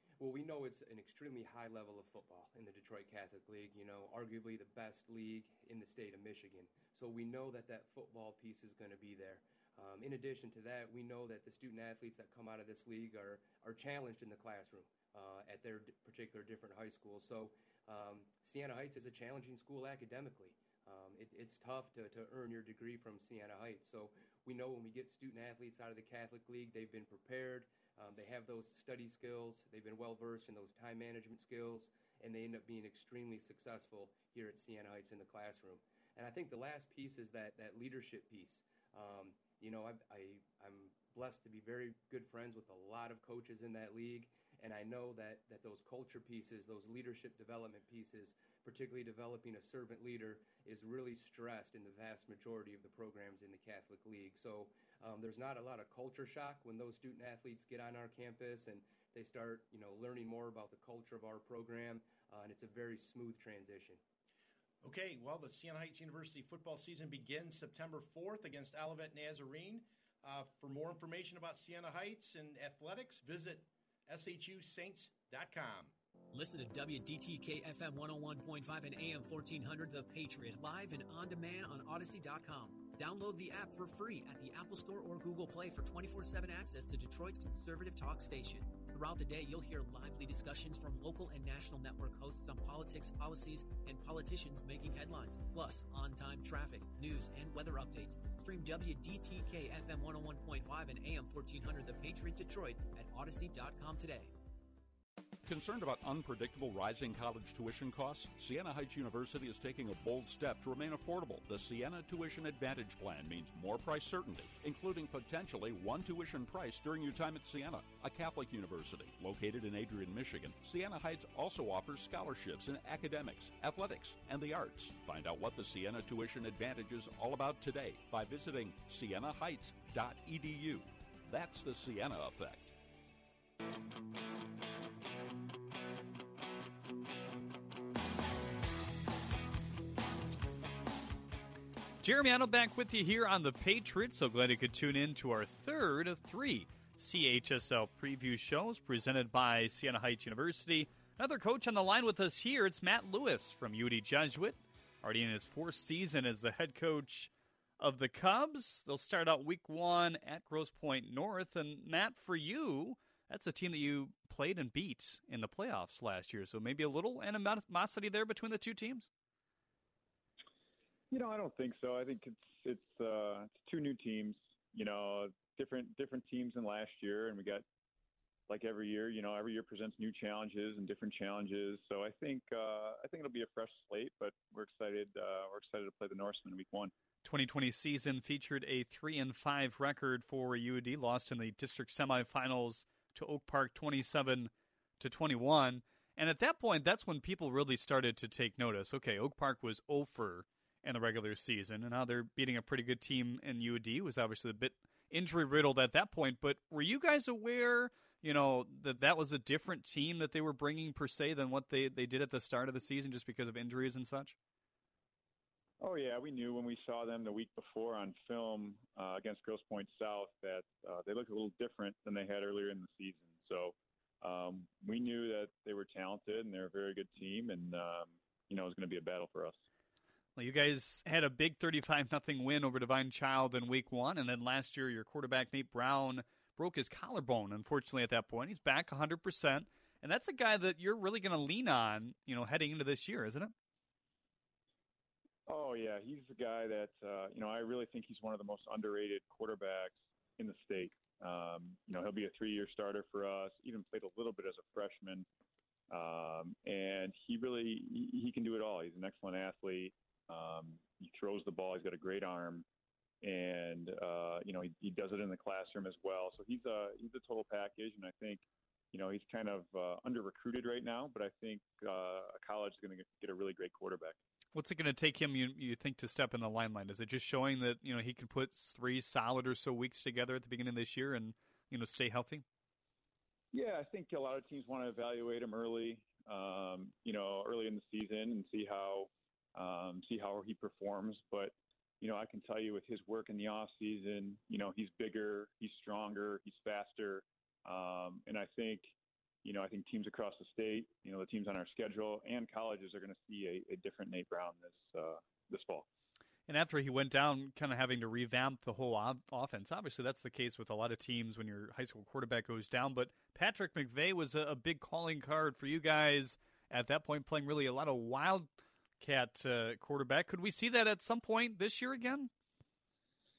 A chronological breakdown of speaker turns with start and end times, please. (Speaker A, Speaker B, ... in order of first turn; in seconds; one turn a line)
Speaker A: 0.2-64.0
Speaker B: 64.8-75.9
Speaker C: 76.3-104.3
Speaker D: 105.4-132.7
Speaker E: 142.0-169.1
Speaker F: 171.1-177.6
Speaker F: 178.5-186.9
Speaker E: 187.2-214.3
Speaker F: 215.8-229.6
Speaker E: 230.4-243.5
Speaker F: 245.5-255.2
Speaker F: 255.9-262.6
Speaker F: 263.2-274.2
Speaker E: 274.5-282.4
Speaker F: 283.5-298.9
Speaker F: 299.4-305.9
Speaker E: 306.5-322.3